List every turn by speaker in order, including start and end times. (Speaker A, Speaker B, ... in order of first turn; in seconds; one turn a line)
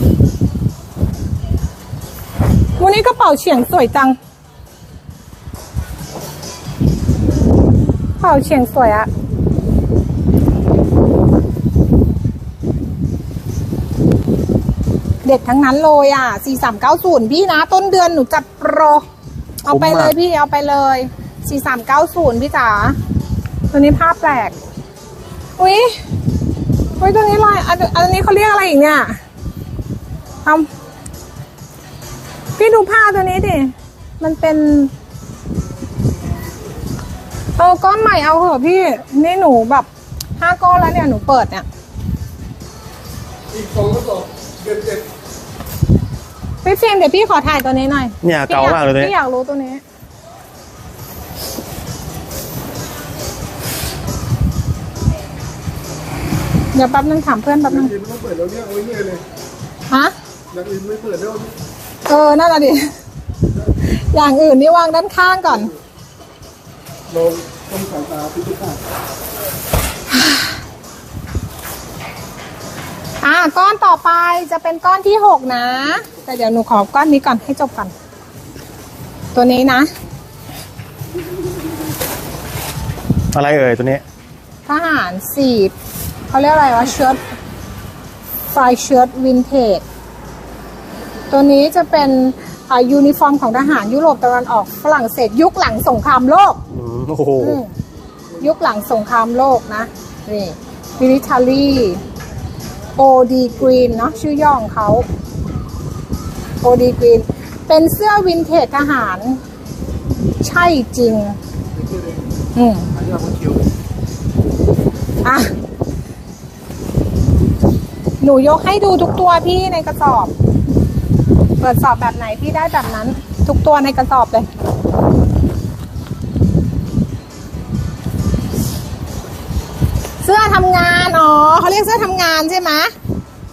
Speaker A: 2.8-4.2
Speaker A: 8.2-9.1
Speaker A: 15.2-19.1
Speaker A: 19.6-23.0
Speaker B: 19.7-20.2
Speaker A: 23.7-24.5
Speaker A: 25.6-26.0
Speaker A: 27.0-29.2
Speaker A: 32.6-34.9
Speaker A: 37.6-39.9
Speaker A: 40.4-41.7
Speaker C: 43.5-45.1
Speaker A: 46.6-49.8
Speaker B: 48.2-49.1
Speaker A: 56.7-57.9
Speaker C: 57.7-59.2
Speaker A: 59.9-60.1
Speaker C: 60.5-61.5
Speaker A: 62.1-62.9
Speaker A: 63.8-65.7
Speaker C: 67.1-68.8
Speaker A: 73.2-77.9
Speaker A: 79.3-79.9
Speaker B: 83.3-84.0
Speaker A: 84.7-85.7
Speaker A: 86.3-87.2
Speaker A: 88.5-89.8
Speaker A: 91.3-96.6
Speaker B: 96.7-97.6
Speaker A: 97.4-97.7
Speaker A: 98.4-102.0
Speaker A: 103.0-105.1
Speaker A: 106.6-109.4
Speaker A: 110.4-111.4
Speaker C: 111.8-112.2
Speaker A: 112.5-112.9
Speaker C: 113.0-113.6
Speaker A: 115.2-115.5
Speaker A: 118.2-120.3
Speaker A: 121.6-124.5
Speaker A: 130.2-132.9